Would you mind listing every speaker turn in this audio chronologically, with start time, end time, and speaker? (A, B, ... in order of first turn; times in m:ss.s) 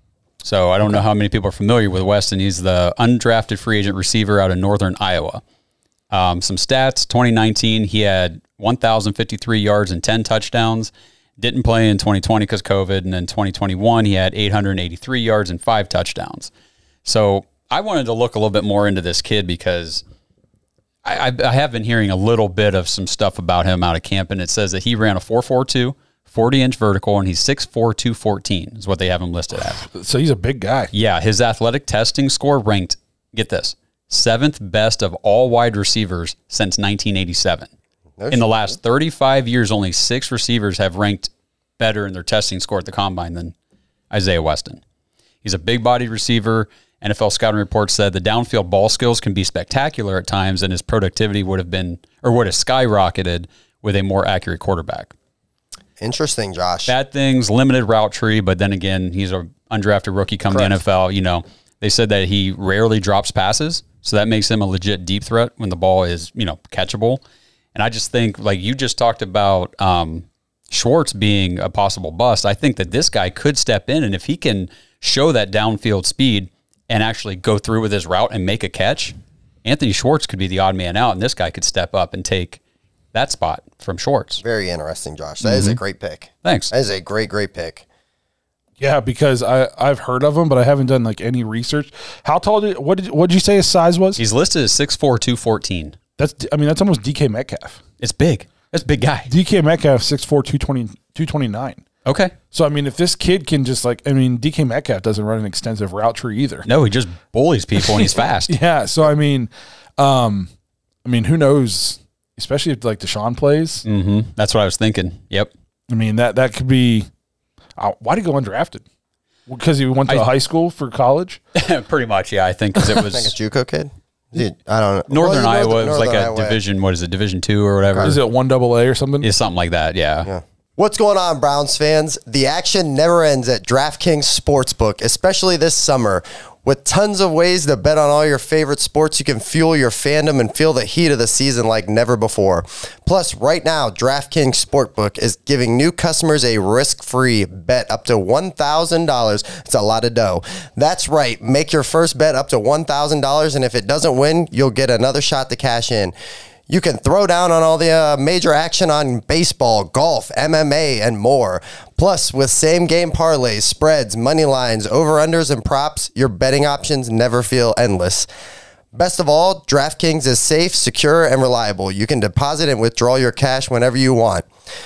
0:00.4-0:05.4 A
0:06.1-0:16.5 A
0:17.0-0:20.0 A
0:21.0-0:29.9 A
0:29.8-0:30.9 B
0:30.9-0:37.7 A
0:38.2-0:38.5 C
0:38.3-0:43.5 A
0:44.1-0:44.8 A
0:45.4-0:55.1 A
0:56.0-0:56.9 C
0:56.9-1:07.2 A
1:07.8-1:22.6 A
1:23.1-1:24.4 A
1:24.4-1:27.8 C
1:25.4-1:25.8 A
1:26.4-1:26.7 A
1:28.8-1:34.2 B
1:34.2-1:36.0 A
1:36.2-1:37.8 B
1:38.0-1:39.3 A
1:39.3-1:41.8 B
1:42.0-1:42.4 A
1:42.5-1:46.7 B
1:46.7-1:48.6 A
1:47.8-1:50.5 B
1:51.0-1:53.8 B
1:53.8-1:55.5 A
1:55.9-1:57.1 B
1:57.8-1:58.8 B
1:59.5-2:01.4 B
2:01.5-2:03.3 A
2:02.9-2:06.6 C
2:05.1-2:08.2 A
2:08.0-2:09.3 B
2:09.2-2:10.3 A
2:10.2-2:36.2 C
2:36.7-2:48.3 C
2:48.9-2:54.4 C